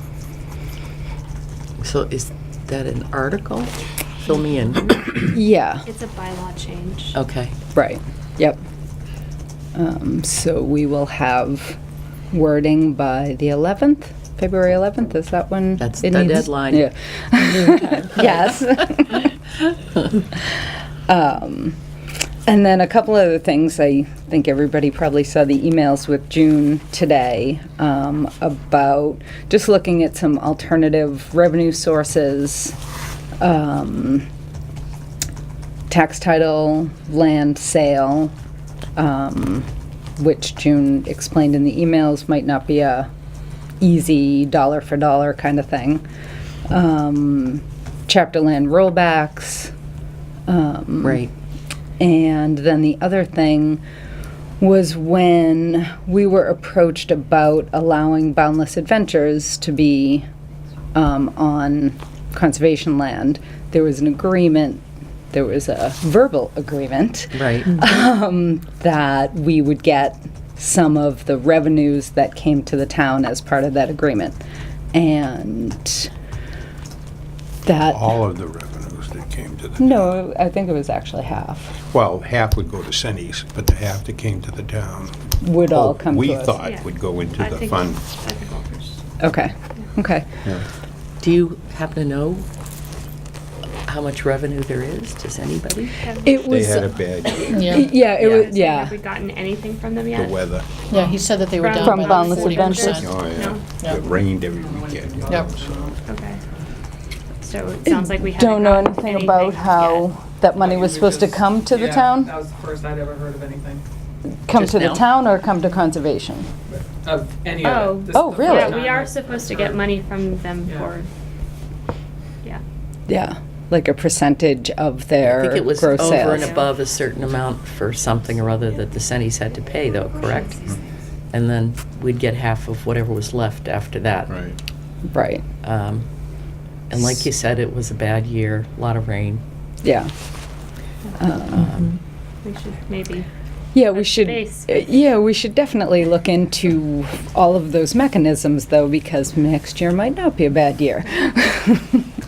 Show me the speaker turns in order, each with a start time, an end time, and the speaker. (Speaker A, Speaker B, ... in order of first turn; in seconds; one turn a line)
Speaker A: 1.8-5.3
Speaker B: 5.2-5.8
Speaker C: 5.8-7.2
Speaker A: 7.1-7.5
Speaker B: 7.7-8.6
Speaker B: 9.7-11.8
Speaker B: 12.3-19.3
Speaker A: 15.8-16.9
Speaker B: 21.1-21.8
Speaker B: 22.4-32.7
Speaker B: 33.4-34.3
Speaker B: 35.9-38.3
Speaker B: 39.0-43.1
Speaker B: 43.8-46.0
Speaker B: 46.7-49.7
Speaker B: 50.5-51.2
Speaker A: 51.0-51.3
Speaker B: 52.0-53.8
Speaker B: 54.6-60.2
Speaker B: 60.9-74.4
Speaker A: 67.3-67.8
Speaker B: 74.9-76.1
Speaker B: 77.7-78.2
Speaker D: 77.9-80.0
Speaker B: 79.8-81.8
Speaker D: 81.9-88.0
Speaker B: 85.4-86.5
Speaker C: 86.6-89.0
Speaker B: 89.2-90.3
Speaker A: 91.2-92.5
Speaker A: 93.8-95.9
Speaker C: 96.0-96.4
Speaker B: 96.2-98.9
Speaker D: 96.5-97.6
Speaker C: 97.5-100.5
Speaker E: 97.5-97.9
Speaker A: 98.2-98.5
Speaker D: 100.1-100.7
Speaker E: 100.9-103.2
Speaker C: 101.6-103.7
Speaker B: 101.8-103.0
Speaker D: 102.9-106.0
Speaker F: 104.5-106.6
Speaker C: 106.1-106.4
Speaker C: 107.4-110.2
Speaker B: 107.8-112.3
Speaker F: 110.5-113.8
Speaker B: 114.5-116.5
Speaker A: 114.5-115.0
Speaker F: 116.7-119.9
Speaker C: 117.6-121.1
Speaker B: 118.1-118.8
Speaker F: 120.6-120.9
Speaker B: 123.1-126.5
Speaker A: 125.2-130.7
Speaker C: 126.1-126.7
Speaker A: 131.3-134.3
Speaker D: 134.3-134.6
Speaker B: 135.1-135.4
Speaker A: 135.6-136.1
Speaker A: 136.9-139.4
Speaker B: 139.8-140.1
Speaker B: 141.2-141.7
Speaker A: 141.5-142.0
Speaker C: 142.4-143.3
Speaker B: 143.7-152.1
Speaker C: 143.9-145.0